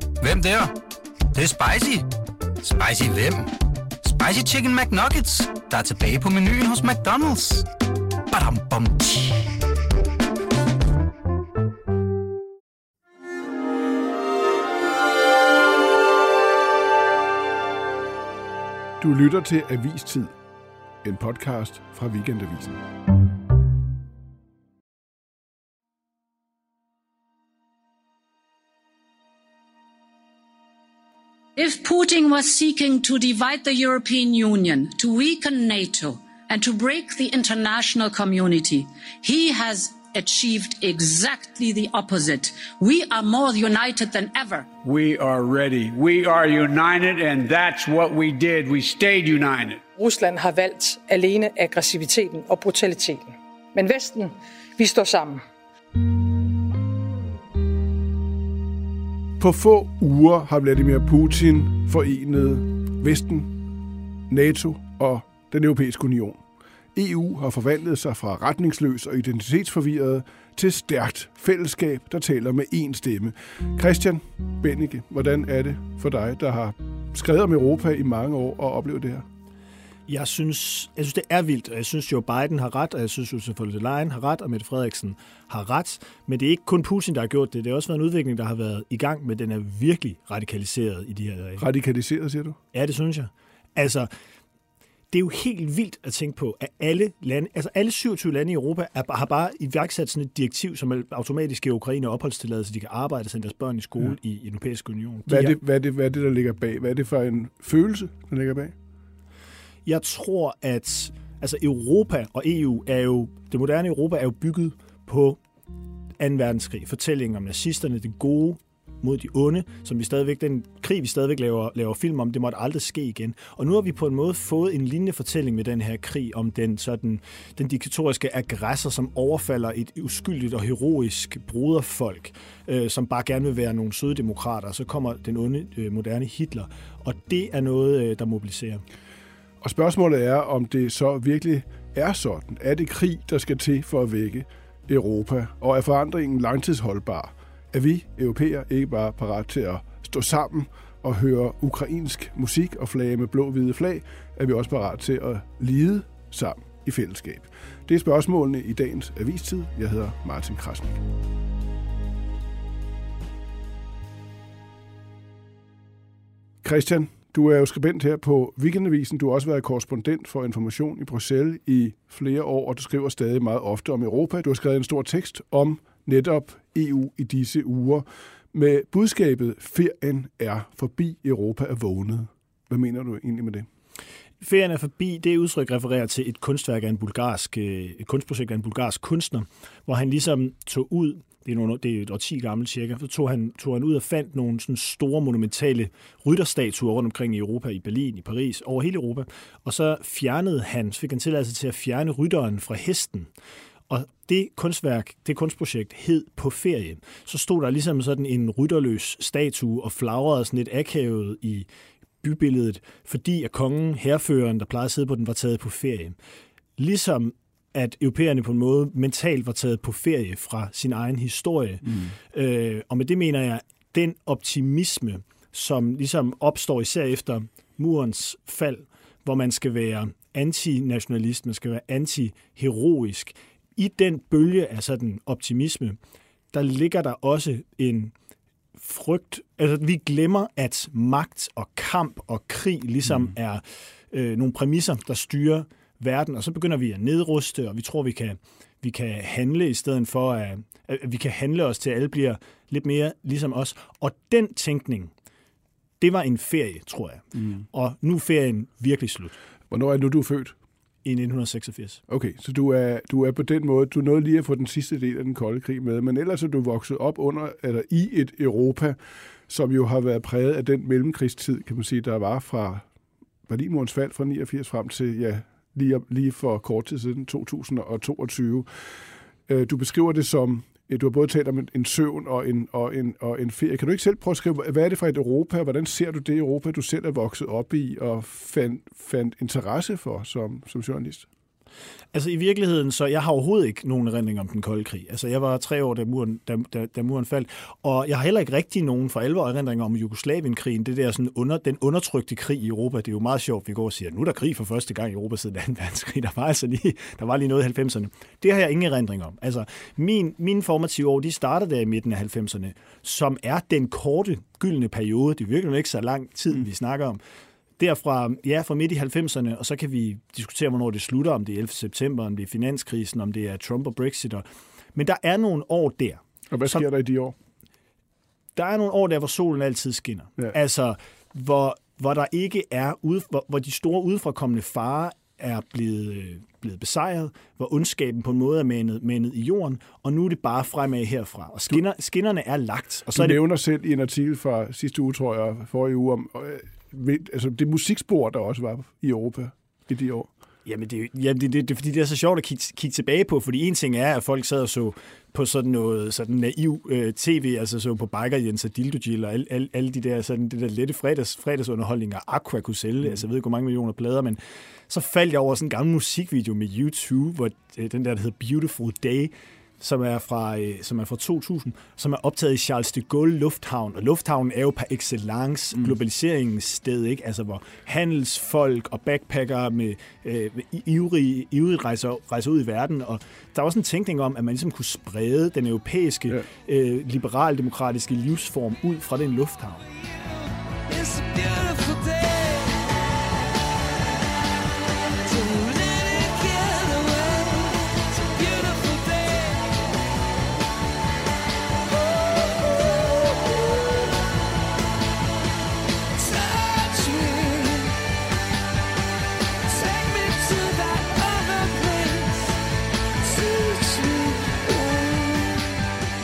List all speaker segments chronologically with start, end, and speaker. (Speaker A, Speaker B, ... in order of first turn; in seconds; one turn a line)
Speaker A: 0.2-0.7
Speaker A: 1.3-2.0
Speaker A: 2.6-7.7
Speaker A: 8.3-9.5
Speaker B: 19.0-20.3
Speaker B: 21.0-22.8
Speaker C: 31.6-44.7
Speaker D: 44.8-49.8
Speaker E: 49.9-55.4
Speaker B: 59.4-63.5
Speaker B: 64.3-66.4
Speaker B: 66.9-79.2
Speaker F: 80.1-91.6
Speaker B: 91.6-92.6
Speaker F: 92.7-94.1
Speaker F: 95.1-105.6
Speaker B: 105.2-108.7
Speaker F: 109.8-115.4
Speaker F: 116.2-138.8
Speaker B: 139.6-161.1
Speaker B: 166.6-183.7
Speaker F: 184.4-203.3
Speaker F: 203.9-211.7
Speaker F: 212.2-216.2
Speaker F: 216.8-236.0
Speaker F: 236.5-238.1
Speaker F: 238.8-255.1
Speaker F: 256.0-259.4
Speaker B: 259.7-260.6
Speaker F: 261.0-262.0
Speaker B: 262.1-272.9
Speaker B: 273.5-278.7
Speaker B: 279.5-291.3
Speaker F: 292.1-317.2
Speaker F: 317.8-326.9
Speaker B: 326.5-327.3
Speaker F: 328.5-343.4
Speaker B: 343.1-350.3
Speaker F: 350.6-389.8
Speaker G: 390.0-390.3
Speaker G: 390.9-393.1
Speaker G: 395.2-399.9
Speaker G: 401.9-404.2
Speaker G: 406.1-408.0
Speaker G: 409.6-412.6
Speaker G: 413.2-415.8